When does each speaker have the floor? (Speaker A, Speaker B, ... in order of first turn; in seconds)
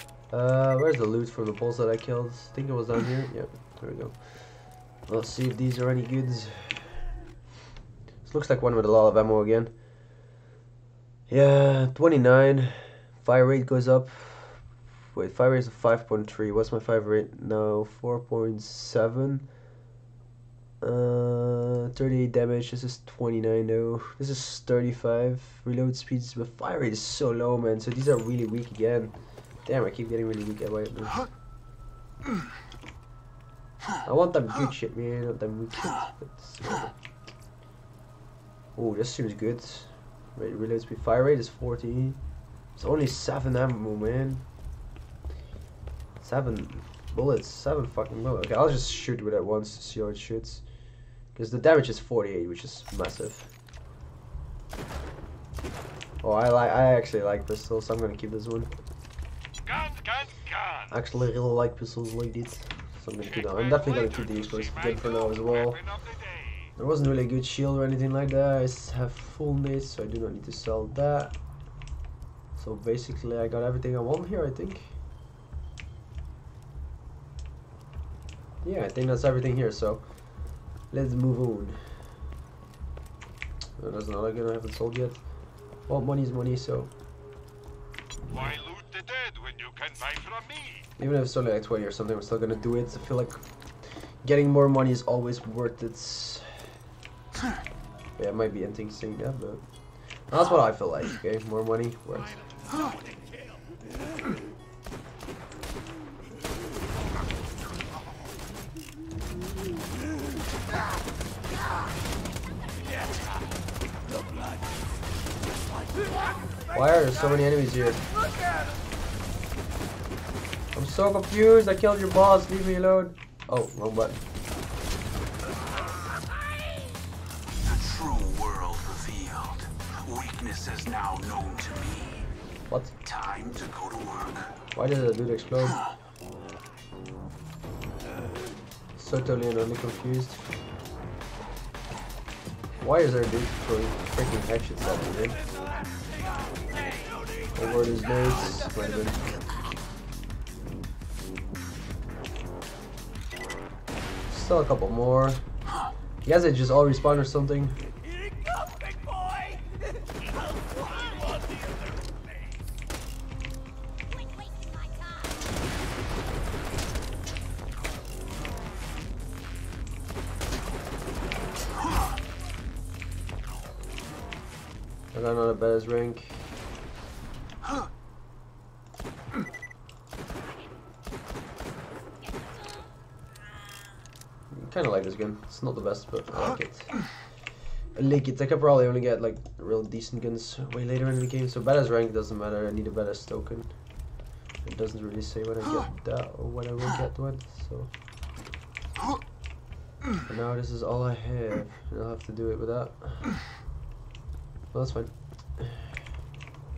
Speaker A: 0.3-4.4, 5.1-6.9, 8.2-9.7, 11.3-14.6, 15.1-19.5, 20.8-31.2, 34.0-36.9, 38.8-42.2, 42.8-44.4, 46.2-50.6, 51.3-53.5, 56.2-58.7, 60.9-65.8, 66.8-71.3, 72.5-75.0, 78.6-80.0, 80.9-81.8, 83.8-85.2, 85.9-86.9, 91.0-93.4, 94.2-96.6, 98.2-99.6, 100.3-102.4, 116.7-118.1, 120.7-124.2, 134.7-135.8, 139.0-140.4, 142.8-145.4, 147.5-149.2, 154.3-155.4, 156.2-157.8, 175.1-176.4, 184.5-186.9, 187.9-193.7, 194.6-197.9, 200.3-203.3, 204.7-205.9
Speaker B: 59.6-60.9, 63.2-66.7, 88.3-90.9
Speaker C: 127.6-132.3, 133.0-134.5